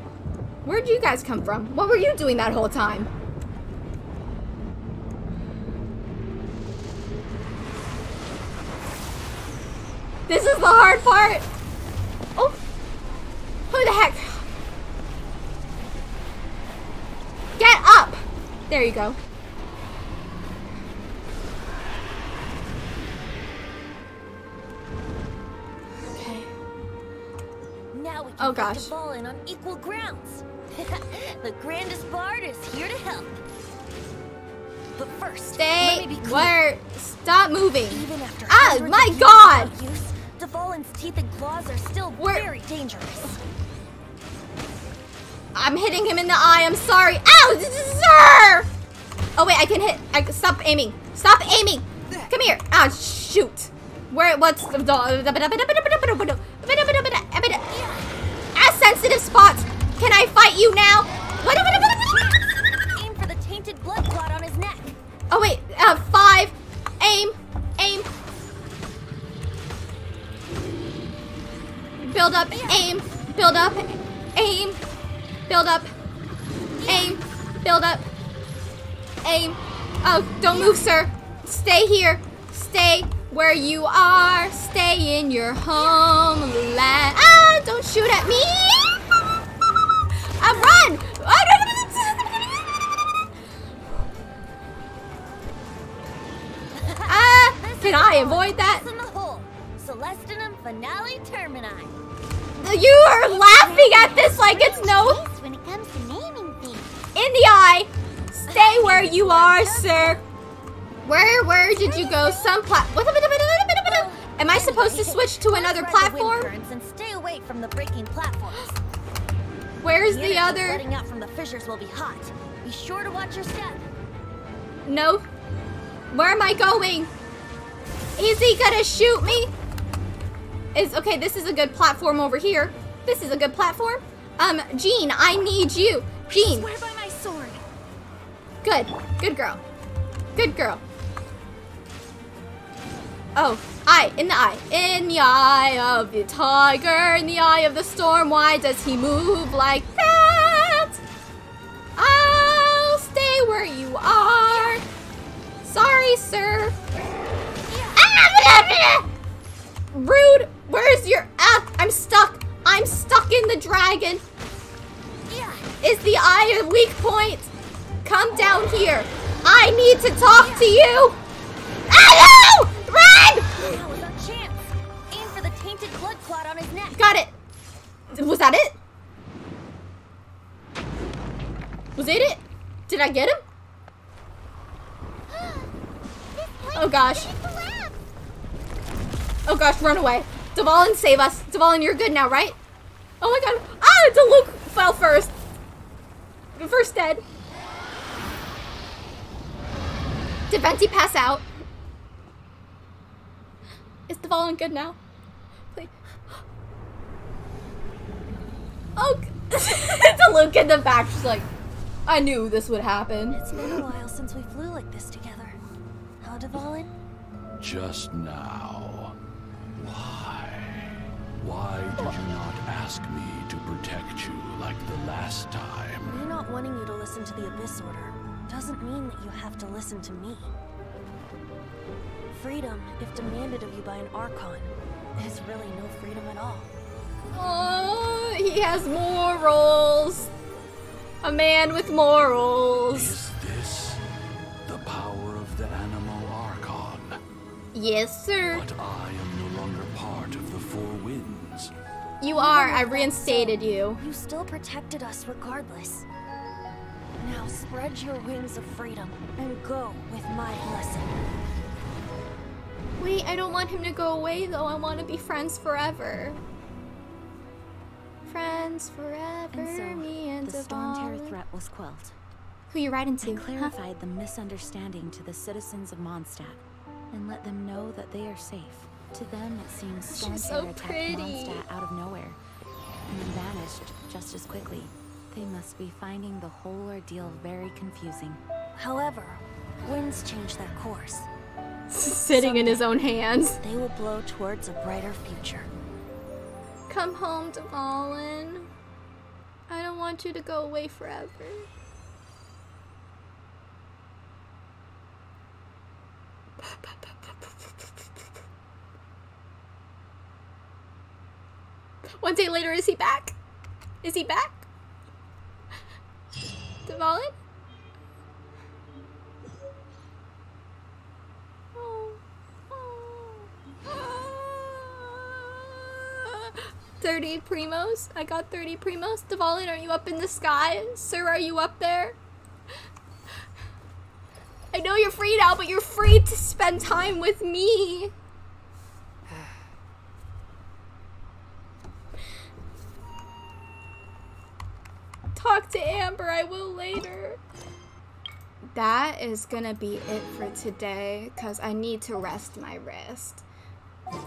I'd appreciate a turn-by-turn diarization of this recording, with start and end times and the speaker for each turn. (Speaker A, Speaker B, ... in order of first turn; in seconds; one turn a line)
Speaker A: 0.6-3.1
Speaker A: 10.3-11.4
Speaker A: 13.7-14.4
Speaker A: 17.6-19.2
Speaker A: 26.0-26.5
Speaker B: 27.9-33.4
Speaker A: 28.4-28.9
Speaker B: 35.0-36.6
Speaker A: 35.5-39.7
Speaker B: 37.9-43.4
Speaker A: 42.2-42.5
Speaker A: 45.5-48.7
Speaker A: 49.4-57.7
Speaker B: 57.7-58.1
Speaker A: 58.5-62.3
Speaker B: 61.8-64.9
Speaker A: 65.3-68.1
Speaker A: 72.0-74.8
Speaker B: 72.5-72.9
Speaker A: 75.5-75.9
Speaker B: 76.8-77.2
Speaker A: 76.9-78.1
Speaker A: 79.2-89.0
Speaker B: 80.5-80.9
Speaker B: 85.7-86.1
Speaker A: 90.4-92.2
Speaker B: 96.7-101.9
Speaker A: 97.0-98.9
Speaker A: 102.6-105.2
Speaker B: 103.4-104.3
Speaker C: 103.7-107.0
Speaker A: 107.1-110.2
Speaker B: 108.5-110.2
Speaker A: 111.0-116.5
Speaker B: 111.7-112.5
Speaker B: 113.8-118.8
Speaker A: 119.8-120.8
Speaker B: 120.0-123.8
Speaker A: 124.9-125.2
Speaker A: 126.1-127.1
Speaker A: 128.2-129.5
Speaker A: 130.7-136.7
Speaker D: 136.3-137.6
Speaker A: 138.6-139.6
Speaker A: 140.3-140.8
Speaker A: 143.4-151.0
Speaker A: 151.9-154.8
Speaker B: 154.5-154.8
Speaker A: 155.6-156.7
Speaker B: 157.7-158.0
Speaker A: 157.9-159.1
Speaker A: 159.9-164.2
Speaker B: 165.3-165.7
Speaker A: 165.8-167.5
Speaker A: 168.0-171.2
Speaker B: 170.4-170.8
Speaker A: 171.9-173.8
Speaker B: 173.5-177.1
Speaker A: 176.9-177.3
Speaker A: 178.1-178.8
Speaker A: 181.9-183.4
Speaker C: 185.3-185.7
Speaker C: 186.3-188.0
Speaker A: 186.7-187.3
Speaker A: 189.4-192.6
Speaker A: 193.2-195.4
Speaker A: 196.6-197.2
Speaker A: 200.5-201.4
Speaker A: 204.1-205.0
Speaker A: 209.0-211.5
Speaker A: 212.1-213.8
Speaker B: 213.3-215.6
Speaker B: 216.2-216.9
Speaker E: 217.6-219.1
Speaker E: 219.7-226.2
Speaker B: 226.1-230.5
Speaker B: 232.3-236.7
Speaker A: 237.3-240.3
Speaker A: 241.2-243.2
Speaker E: 242.9-244.0
Speaker E: 244.7-247.2
Speaker A: 247.7-248.6
Speaker E: 248.4-251.7
Speaker A: 252.2-254.0
Speaker B: 252.3-256.0
Speaker B: 257.2-261.2
Speaker A: 263.0-266.4
Speaker A: 268.2-271.4
Speaker D: 269.5-272.1
Speaker A: 272.7-273.8
Speaker D: 273.2-276.6
Speaker D: 277.1-282.4
Speaker A: 280.1-281.6
Speaker D: 283.1-288.4
Speaker B: 288.8-291.3
Speaker A: 291.9-293.6
Speaker D: 292.4-292.7
Speaker B: 293.6-295.7
Speaker A: 296.9-298.7
Speaker A: 299.7-301.7
Speaker A: 312.1-313.4
Speaker A: 314.0-314.6
Speaker A: 316.9-317.3
Speaker A: 321.7-332.2
Speaker A: 334.7-338.1
Speaker A: 345.4-347.4
Speaker A: 348.7-353.4